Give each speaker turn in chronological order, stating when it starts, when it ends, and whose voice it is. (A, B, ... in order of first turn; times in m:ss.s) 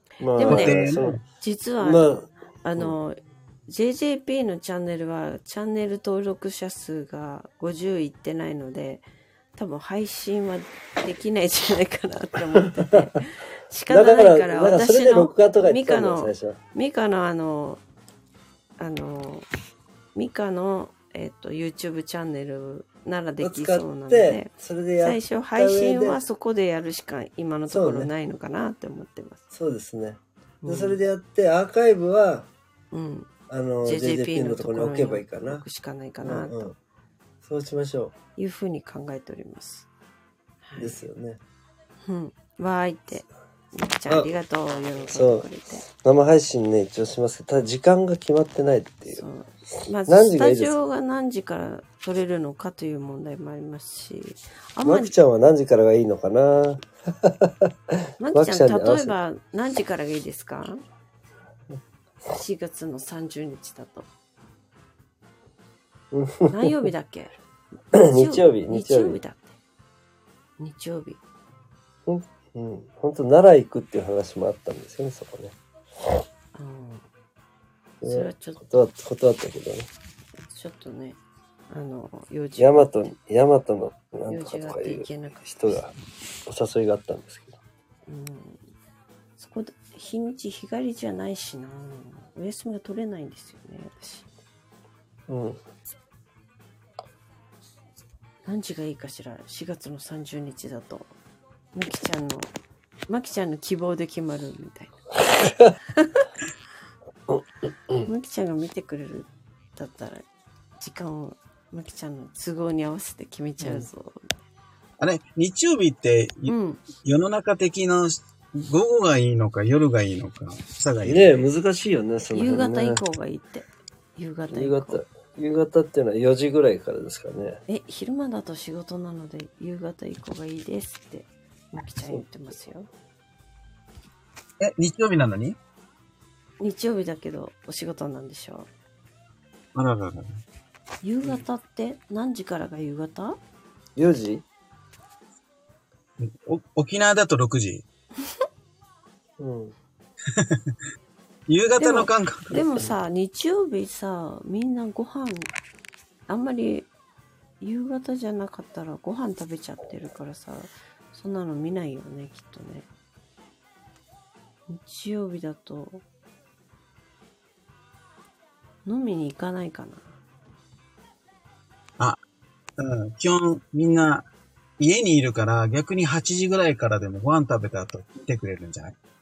0:00.2-0:01.2 A
0:00.3-0:17.8 B
0:00.4-0:01.2 C
0:01.8-0:03.0 A
0:13.9-0:16.6 A
0:18.8-0:19.5 B
0:20.1-0:29.4 B
0:23.4-0:26.2 A
0:27.7-0:28.1 A
0:29.5-0:32.5 A
0:30.6-0:31.0 B
0:32.9-0:33.3 B
0:33.5-0:35.6 A
0:33.8-0:36.6 B
0:36.2-0:36.7 A
0:37.4-0:38.1 A
0:38.4-0:39.9 B
0:40.6-0:41.0 B
0:40.8-0:41.4 A
0:42.0-0:45.8 B
0:45.0-0:49.2 A
0:49.1-0:55.1 B
0:50.1-0:50.7 A
0:54.8-0:59.1 A
0:58.2-1:00.8 B
1:02.3-1:04.1 B
1:06.1-1:06.9 A
1:06.5-1:07.3 B
1:07.9-1:09.5 B
1:07.9-1:09.2 A
1:10.6-1:11.2 B
1:12.0-1:15.5 A
1:16.5-1:17.0 B
1:18.0-1:19.9 A
1:18.0-1:18.6 B
1:20.5-1:21.2 B
1:21.7-1:23.1 B
1:22.6-1:25.9 A
1:24.3-1:25.8 B
1:26.4-1:27.6 A
1:28.1-1:28.6 B
1:29.4-1:34.3 B
1:35.3-1:35.6 A
1:38.4-1:41.1 B
1:41.7-1:42.5 B
1:43.1-1:44.9 B
1:46.0-1:46.2 B
1:47.3-1:48.1 A
1:48.0-1:50.2 B
1:50.8-1:54.3 B
1:53.6-1:53.9 A
1:55.0-2:01.4 C
1:56.4-1:56.8 B
2:01.0-2:03.0 A
2:02.3-2:05.0 B
2:04.5-2:07.6 A
2:07.7-2:12.9 B
2:14.6-2:15.6 C
2:16.6-2:18.7 B
2:19.7-2:20.3 C
2:21.0-2:23.4 B
2:24.0-2:24.4 A
2:26.2-2:27.8 C
2:29.4-2:29.7 A
2:30.3-2:30.7 C
2:31.5-2:32.8 C
2:31.8-2:35.5 B
2:36.3-2:36.9 B
2:37.6-2:42.9 B
2:44.7-2:46.0 B
2:48.8-2:50.2 B
2:52.8-2:54.3 C
2:54.8-2:59.0 C